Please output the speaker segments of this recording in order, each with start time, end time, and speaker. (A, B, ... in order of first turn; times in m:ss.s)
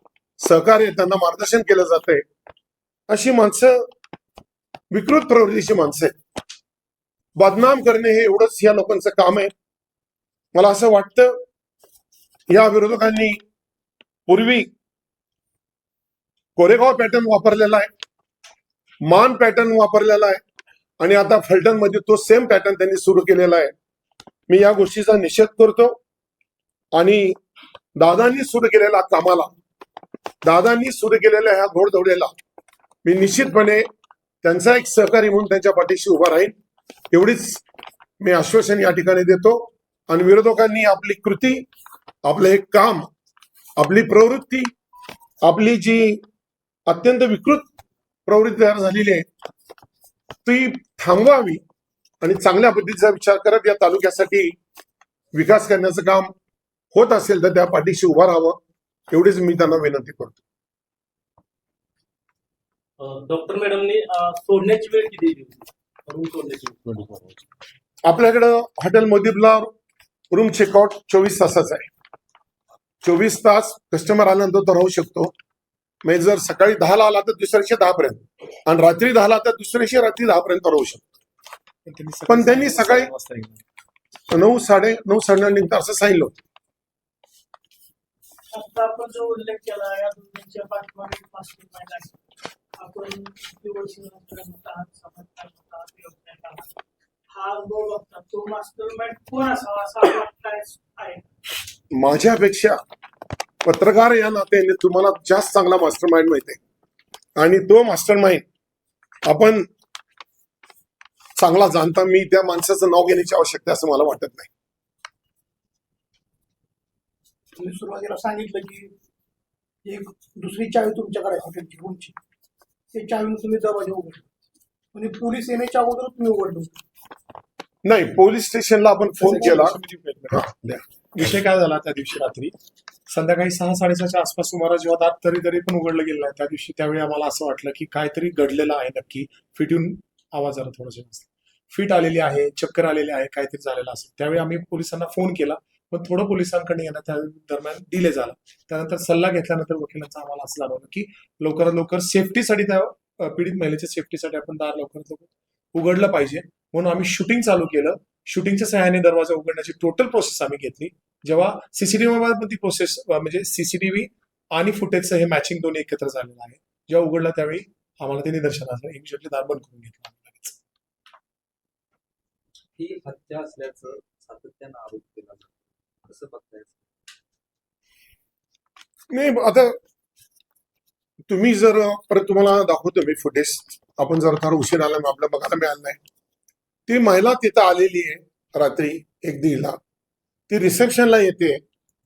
0:00.4-0:02.2 A
0:03.1-0:03.8 A
0:04.9-0:06.2 A
0:07.4-0:09.5 A
0:10.5-0:11.4 A
0:12.5-0:13.4 A
0:14.3-0:14.7 A
0:16.6-0:17.9 A
0:19.1-0:20.4 A
0:21.0-0:23.7 A
0:24.5-0:26.0 A
0:26.9-0:27.4 A
0:28.0-0:29.5 A
0:30.4-0:32.3 A
0:33.0-0:33.8 A
0:34.4-0:36.5 A
0:37.1-0:37.6 A
0:38.2-0:41.6 A
0:42.2-0:43.1 A
0:43.8-0:44.7 A
0:45.4-0:46.2 A
0:46.9-0:47.7 A
0:48.3-0:49.3 A
0:50.4-0:51.6 A
0:52.2-0:54.6 A
0:55.3-0:56.3 A
0:56.9-0:58.6 A
0:59.1-1:00.4 A
1:03.0-1:06.7 B
1:06.8-1:07.4 C
1:08.0-1:09.7 A
1:10.3-1:11.9 A
1:13.0-1:15.3 A
1:16.0-1:21.0 A
1:21.9-1:23.6 D
1:22.3-1:23.1 A
1:24.3-1:26.3 A
1:28.5-1:32.2 E
1:32.8-1:36.7 E
1:37.3-1:41.2 E
1:41.9-1:42.8 A
1:43.6-1:46.6 A
1:47.4-1:48.4 A
1:49.3-1:49.7 A
1:51.4-1:54.5 A
1:57.6-1:58.9 F
1:59.8-2:02.2 F
2:02.9-2:04.2 F
2:04.9-2:06.8 F
2:07.8-2:09.8 A
2:09.2-2:10.5 D
2:10.3-2:10.8 A
2:11.1-2:12.5 D
2:13.1-2:50.6 D
2:52.8-2:55.5 C
2:56.0-2:56.8 C
2:59.1-2:59.8 A
3:01.3-3:06.0 A
3:06.9-3:09.8 A
3:10.5-3:11.6 A